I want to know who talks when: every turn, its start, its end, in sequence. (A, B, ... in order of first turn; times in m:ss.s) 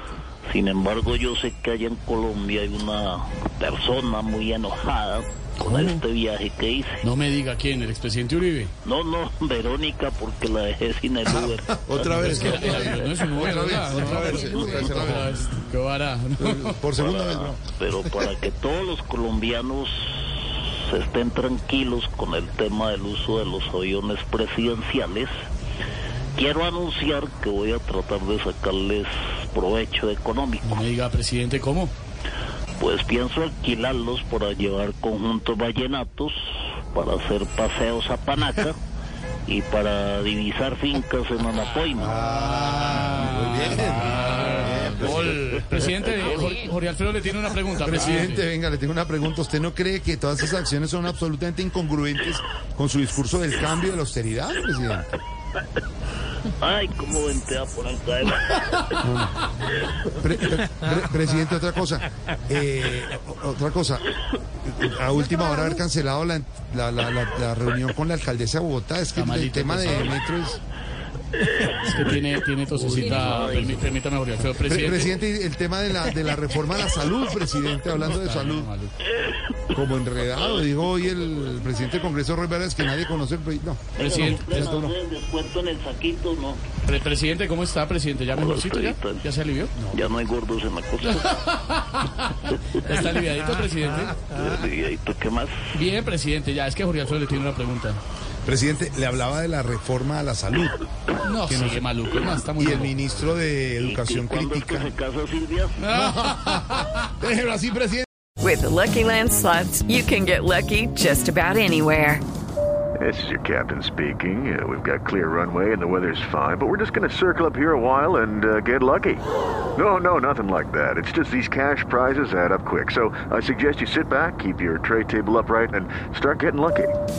0:00.5-0:07.0 A
0:05.6-0:06.0 B
0:07.0-0:08.7 B
0:08.8-0:13.3 A
0:11.2-0:15.6 C
0:12.1-0:16.8 B
0:14.4-0:15.0 A
0:16.4-0:17.6 C
0:17.0-0:25.3 A
0:26.4-0:30.8 A
0:30.6-0:31.9 B
0:32.8-0:38.8 A
0:39.5-0:42.2 A
0:42.0-0:45.5 C
0:42.2-0:48.4 B
0:44.9-0:46.6 A
0:47.7-0:55.1 C
0:56.6-0:59.0 A
0:59.0-0:59.4 C
1:00.2-1:04.1 C
1:04.6-1:10.6 C
1:09.1-1:10.2 B
1:11.5-1:11.8 A
1:11.8-1:15.2 B
1:12.8-1:13.9 A
1:14.6-1:18.7 C
1:18.1-1:18.9 B
1:19.7-1:24.9 C
1:24.0-1:24.5 B
1:24.0-1:26.7 A
1:26.8-1:29.8 B
1:28.4-1:29.3 A
1:29.9-1:31.3 A
1:31.0-1:34.3 B
1:32.5-1:32.9 A
1:34.3-1:35.5 A
1:35.7-1:38.0 B
1:38.4-1:40.8 C
1:41.2-1:43.4 B
1:41.5-1:45.0 C
1:43.8-1:45.9 A
1:45.8-1:47.0 B
1:46.1-1:46.5 C
1:47.2-1:48.1 C
1:48.4-1:52.2 D
1:53.0-2:07.0 E